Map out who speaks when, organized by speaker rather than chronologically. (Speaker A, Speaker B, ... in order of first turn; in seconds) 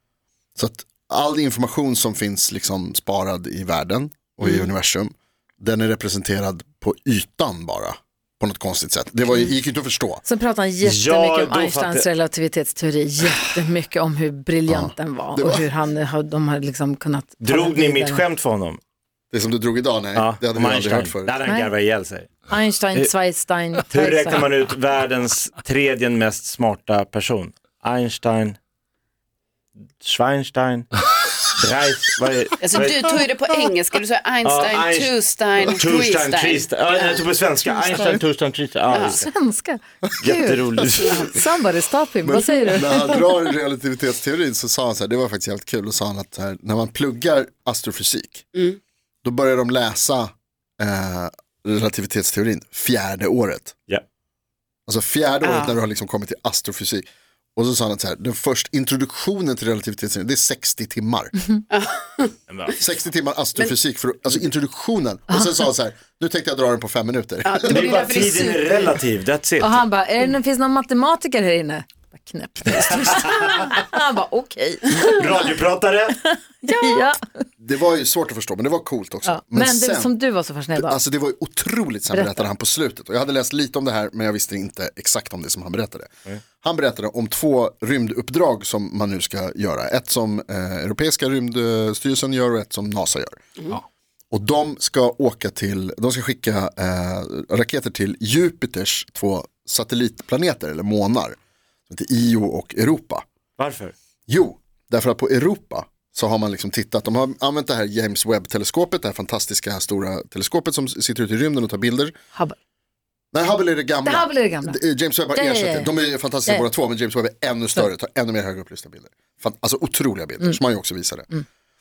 Speaker A: 0.6-10.2, 14.7-15.7, 19.3-21.4, 42.2-48.5, 49.2-53.7, 54.9-61.3, 62.8-67.9, 77.6-80.1, 80.8-93.4, 94.3-101.4, 101.9-103.2, 104.3-112.1, 113.3-121.3
Speaker B: 10.2-18.2, 22.5-24.5, 39.2-43.3, 69.6-75.5, 76.6-77.2, 79.2-81.0, 82.1-82.5, 114.0-116.7
Speaker C: 10.8-12.1, 17.4-18.8, 20.1-22.4, 23.9-28.6, 30.0-30.9, 31.4-33.0, 34.4-35.2, 35.8-39.3, 40.2-41.3, 62.5-62.8, 67.7-69.8, 72.8-73.7, 74.9-76.3, 103.6-103.9
Speaker D: 32.6-37.2, 38.9-39.2, 41.0-41.4, 55.4-55.7, 61.7-62.3, 67.4-69.0, 76.7-77.0